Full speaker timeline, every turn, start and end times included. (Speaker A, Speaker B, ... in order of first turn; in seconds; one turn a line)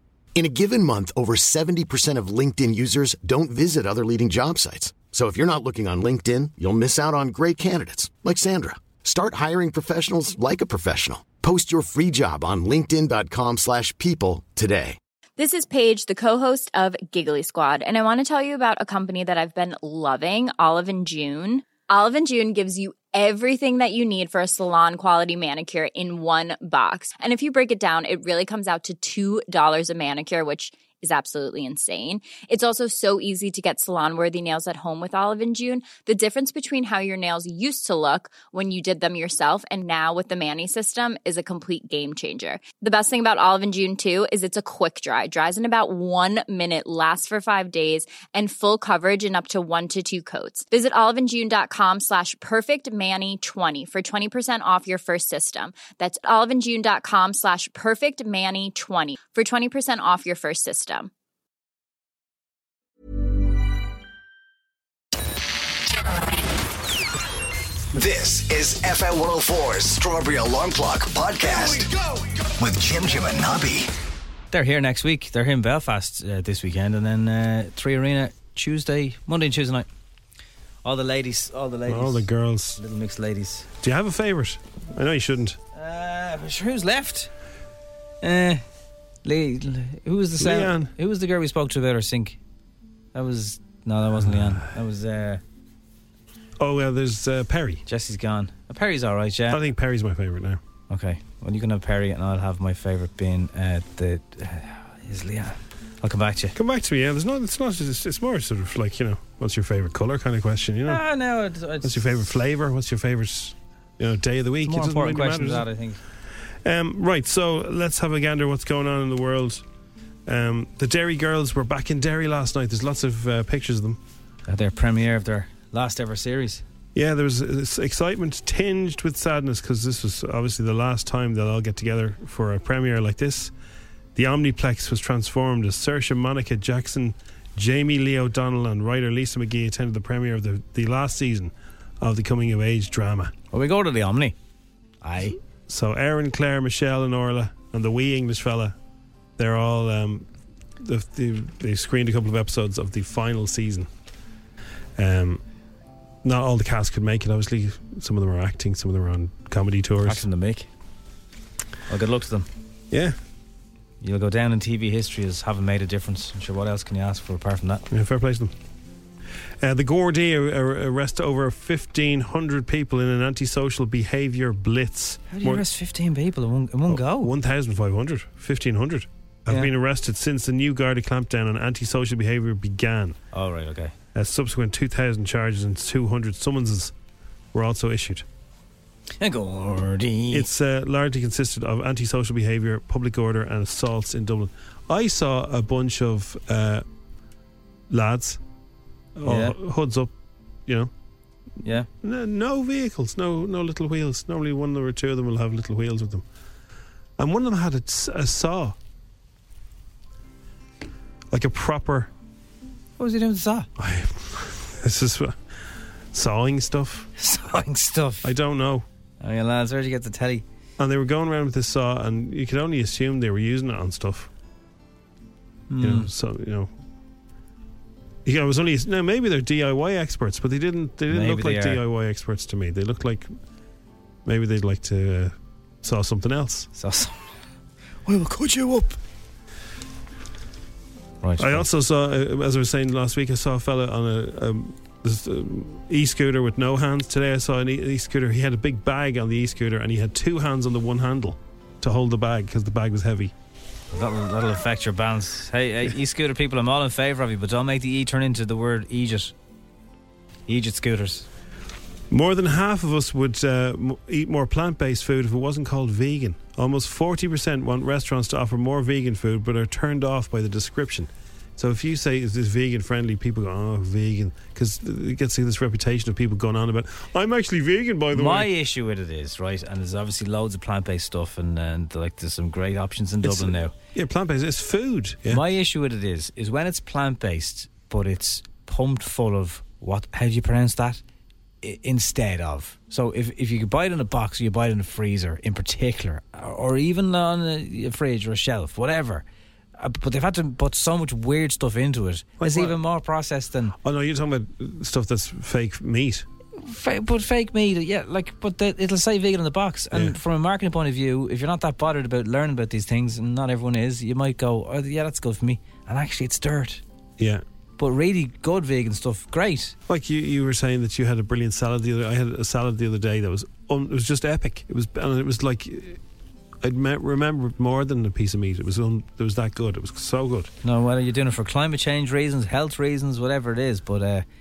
Speaker A: 0.3-15.0
Speaker B: 15.4-61.1
Speaker C: 67.9-71.9
Speaker C: 72.6-73.9
Speaker D: 74.5-79.9
Speaker D: 80.8-83.7
Speaker E: 81.9-82.8
Speaker E: 83.8-85.6
Speaker D: 85.7-87.3
Speaker D: 88.2-88.6
Speaker D: 89.2-92.4
Speaker E: 90.4-90.9
Speaker D: 93.1-95.4
Speaker E: 94.2-94.7
Speaker E: 96.6-97.8
Speaker D: 97.9-99.6
Speaker E: 99.5-100.6
Speaker D: 100.9-106.5
Speaker E: 106.5-111.0
Speaker D: 110.9-112.2
Speaker E: 111.8-115.7
Speaker D: 114.7-116.0
Speaker E: 116.6-119.6
Speaker E: 120.3-124.0
Speaker D: 124.5-126.6
Speaker E: 127.0-133.5
Speaker E: 134.2-143.3
Speaker D: 143.5-144.3
Speaker D: 145.0-145.4
Speaker E: 145.7-148.8
Speaker E: 149.4-150.3
Speaker E: 150.8-153.9
Speaker E: 155.0-155.4
Speaker E: 156.2-160.3
Speaker D: 160.1-160.7
Speaker D: 161.9-162.5
Speaker E: 162.9-163.2
Speaker D: 164.0-167.8
Speaker E: 167.9-168.5
Speaker E: 169.6-175.7
Speaker D: 175.3-177.3
Speaker E: 176.9-183.2
Speaker D: 183.3-183.9
Speaker E: 184.1-186.9
Speaker E: 187.5-188.2
Speaker D: 189.2-190.5
Speaker E: 190.3-196.8
Speaker E: 197.9-198.4
Speaker E: 199.2-200.1
Speaker D: 199.3-199.6
Speaker E: 200.7-200.9
Speaker D: 201.6-201.9
Speaker E: 202.0-206.2
Speaker E: 207.2-208.8
Speaker E: 211.3-212.1
Speaker D: 213.0-213.7
Speaker E: 213.8-215.4
Speaker E: 216.1-217.1
Speaker D: 217.2-218.3
Speaker E: 218.2-218.8
Speaker D: 219.2-220.4
Speaker E: 220.8-224.3
Speaker D: 225.7-226.1
Speaker E: 225.8-226.7
Speaker E: 228.2-233.3
Speaker D: 231.1-231.8
Speaker E: 234.2-236.7
Speaker D: 236.8-237.3
Speaker D: 238.1-239.0
Speaker D: 241.2-241.7
Speaker E: 241.4-253.3
Speaker D: 253.9-259.3
Speaker D: 260.5-261.3
Speaker E: 262.1-278.5
Speaker D: 278.1-283.7
Speaker E: 283.2-285.4
Speaker D: 285.3-291.0
Speaker D: 291.6-299.2
Speaker D: 299.8-303.7
Speaker E: 302.4-302.8
Speaker E: 303.8-306.2
Speaker D: 306.6-316.8
Speaker D: 317.8-319.8
Speaker E: 319.9-326.0
Speaker E: 326.6-330.5
Speaker D: 330.6-334.2